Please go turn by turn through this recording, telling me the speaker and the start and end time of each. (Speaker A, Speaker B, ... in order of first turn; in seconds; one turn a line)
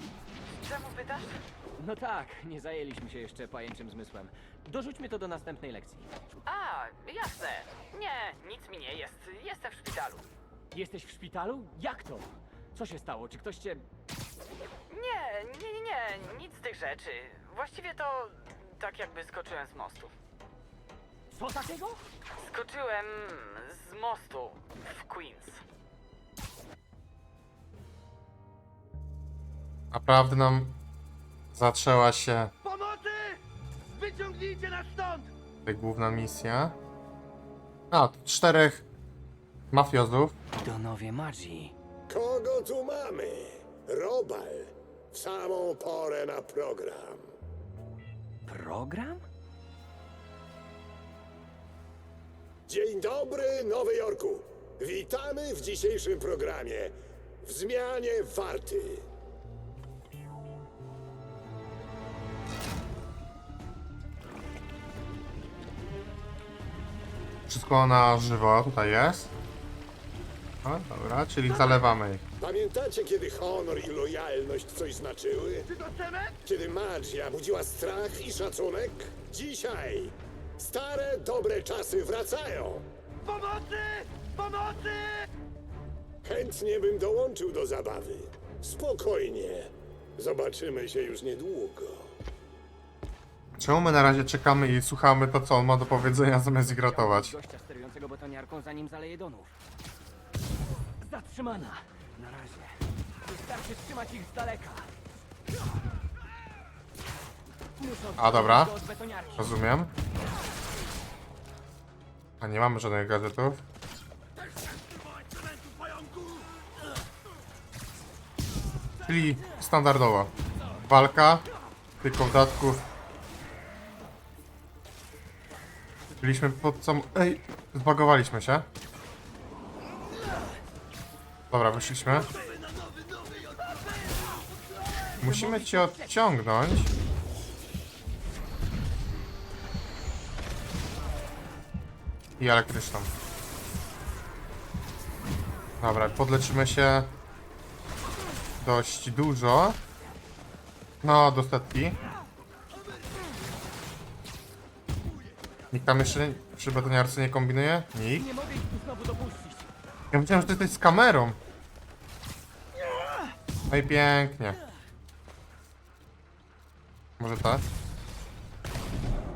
Speaker A: 0.6-1.4
Speaker B: 1.8-6.1
Speaker A: 6.5-10.2
Speaker B: 10.7-13.8
Speaker A: 14.9-20.1
Speaker B: 21.3-22.0
Speaker A: 22.4-25.6
Speaker C: 29.9-30.8
Speaker C: 31.5-32.5
Speaker D: 32.7-33.4
Speaker D: 34.0-35.3
Speaker C: 35.6-36.8
Speaker C: 37.9-38.8
Speaker C: 39.7-40.4
Speaker B: 40.6-41.7
Speaker E: 42.1-47.3
Speaker B: 48.5-49.2
Speaker E: 52.7-59.0
Speaker C: 67.5-69.3
Speaker C: 70.6-72.2
Speaker E: 72.4-75.7
Speaker D: 75.8-76.3
Speaker E: 76.4-82.9
Speaker D: 83.3-85.2
Speaker E: 86.2-92.1
Speaker C: 93.6-97.3
Speaker B: 96.6-99.5
Speaker B: 101.0-104.9
Speaker B: 107.8-109.5
Speaker C: 108.2-108.7
Speaker C: 109.3-109.9
Speaker C: 112.4-113.6
Speaker C: 119.0-121.4
Speaker C: 122.0-122.8
Speaker C: 126.2-128.7
Speaker C: 131.5-132.3
Speaker C: 135.2-136.9
Speaker B: 135.2-136.0
Speaker C: 142.4-143.1
Speaker C: 145.8-147.1
Speaker C: 148.6-149.8
Speaker C: 151.0-152.0
Speaker C: 155.7-158.3
Speaker B: 158.2-159.7
Speaker C: 160.1-161.4
Speaker C: 163.7-164.6
Speaker C: 167.2-167.6